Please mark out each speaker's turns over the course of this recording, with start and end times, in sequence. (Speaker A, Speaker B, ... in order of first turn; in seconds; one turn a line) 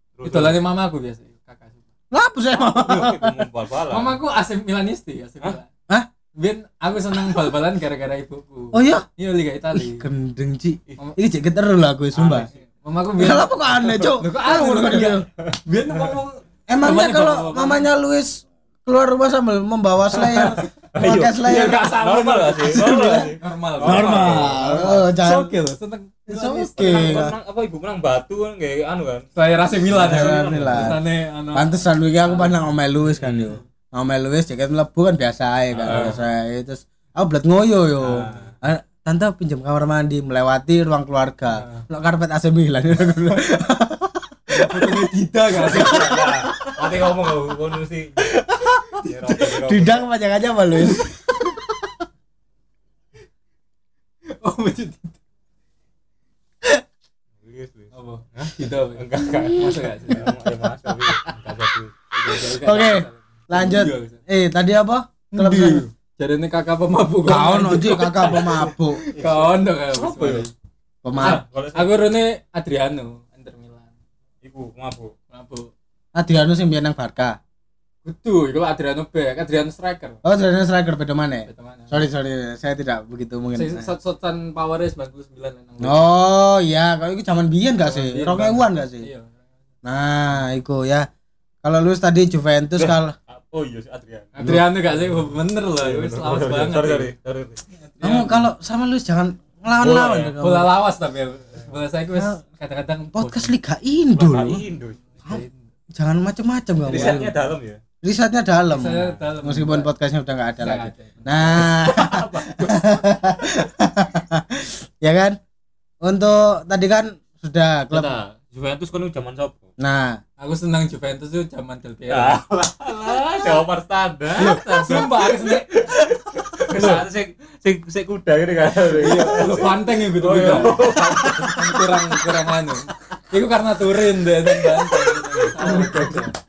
Speaker A: 0.2-0.6
Speaker B: 0.2-1.9
Speaker C: 2.1-3.4
Speaker A: 2.7-4.2
Speaker B: 3.9-5.7
Speaker B: 6.4-10.1
Speaker C: 8.7-9.1
Speaker C: 9.7-12.5
Speaker A: 12.1-12.5
Speaker B: 12.5-17.9
Speaker C: 13.2-15.3
Speaker A: 15.4-16.2
Speaker C: 16.7-21.8
Speaker A: 20.2-25.1
Speaker B: 21.4-24.6
Speaker C: 22.6-25.6
Speaker B: 25.1-27.3
Speaker C: 26.3-27.4
Speaker A: 26.8-29.3
Speaker B: 29.4-32.6
Speaker A: 29.9-31.0
Speaker C: 29.9-31.0
Speaker C: 31.5-45.1
Speaker A: 33.2-33.6
Speaker A: 35.7-36.2
Speaker B: 35.9-36.2
Speaker A: 38.0-38.5
Speaker B: 44.5-46.2
Speaker A: 45.5-48.3
Speaker C: 45.6-46.8
Speaker C: 48.2-51.9
Speaker A: 49.0-50.1
Speaker B: 54.3-55.2
Speaker A: 57.4-61.9
Speaker B: 57.9-60.3
Speaker B: 62.1-64.2
Speaker C: 62.4-65.8
Speaker B: 65.3-70.5
Speaker C: 67.3-69.0
Speaker A: 68.2-68.6
Speaker A: 69.1-70.5
Speaker C: 71.0-71.4
Speaker A: 71.1-72.1
Speaker B: 71.2-73.9
Speaker A: 74.4-75.1
Speaker B: 75.3-75.7
Speaker C: 76.2-77.4
Speaker B: 78.0-80.2
Speaker C: 80.2-83.9
Speaker B: 81.5-82.0
Speaker B: 83.5-86.0
Speaker C: 85.8-89.1
Speaker B: 87.8-89.4
Speaker C: 89.8-91.1
Speaker C: 91.6-93.2
Speaker A: 92.8-97.6
Speaker B: 94.3-97.1
Speaker B: 97.8-98.5
Speaker C: 98.0-100.7
Speaker A: 99.8-100.4
Speaker B: 100.4-103.5
Speaker C: 103.2-104.7
Speaker A: 104.1-105.0
Speaker B: 105.1-105.6
Speaker C: 105.3-107.3
Speaker A: 106.9-107.8
Speaker B: 106.9-107.3
Speaker C: 108.0-115.4
Speaker B: 108.7-109.9
Speaker B: 110.6-112.9
Speaker A: 111.8-112.7
Speaker C: 116.0-118.1
Speaker A: 117.9-119.7
Speaker C: 119.8-120.2
Speaker B: 120.4-122.4
Speaker A: 122.1-131.9
Speaker B: 124.4-125.7
Speaker B: 126.7-127.0
Speaker B: 129.0-136.3
Speaker C: 130.8-131.4
Speaker A: 135.0-136.2
Speaker C: 135.6-136.2